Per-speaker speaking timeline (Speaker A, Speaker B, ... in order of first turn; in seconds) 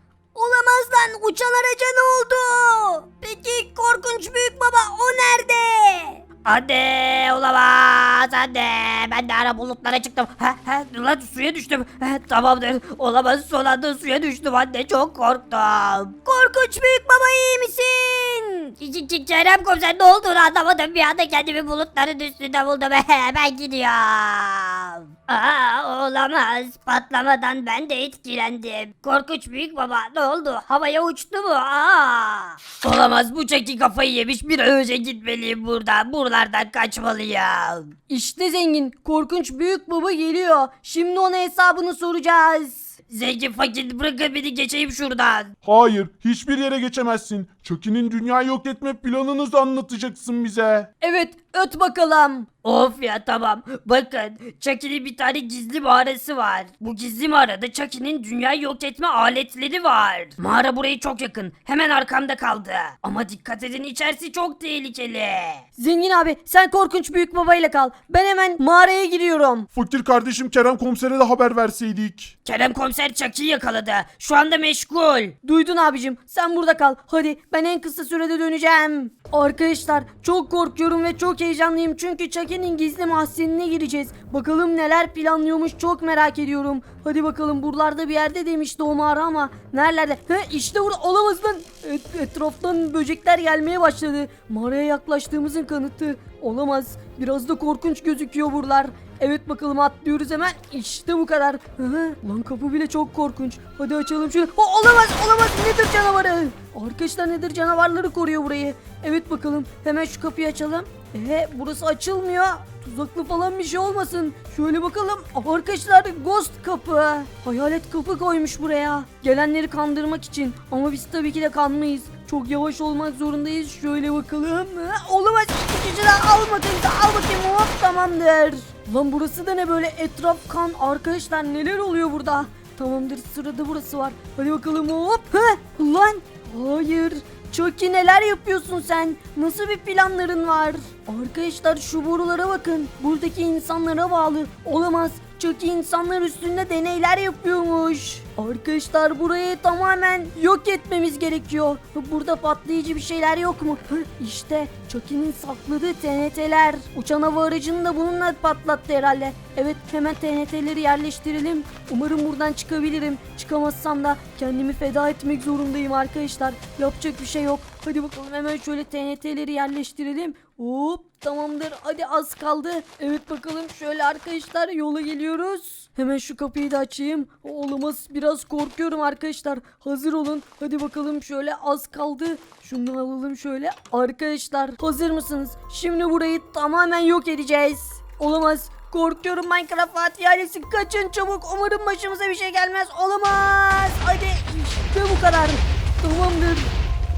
Speaker A: 0.3-3.4, 4.5-6.2, 38.1-42.9, 51.0-52.5, 65.8-69.7, 75.4-196.7
Speaker B: 3.2-4.3, 6.4-37.9, 43.1-45.5, 52.6-65.6, 72.4-75.3
Speaker C: 45.6-50.9, 69.7-72.3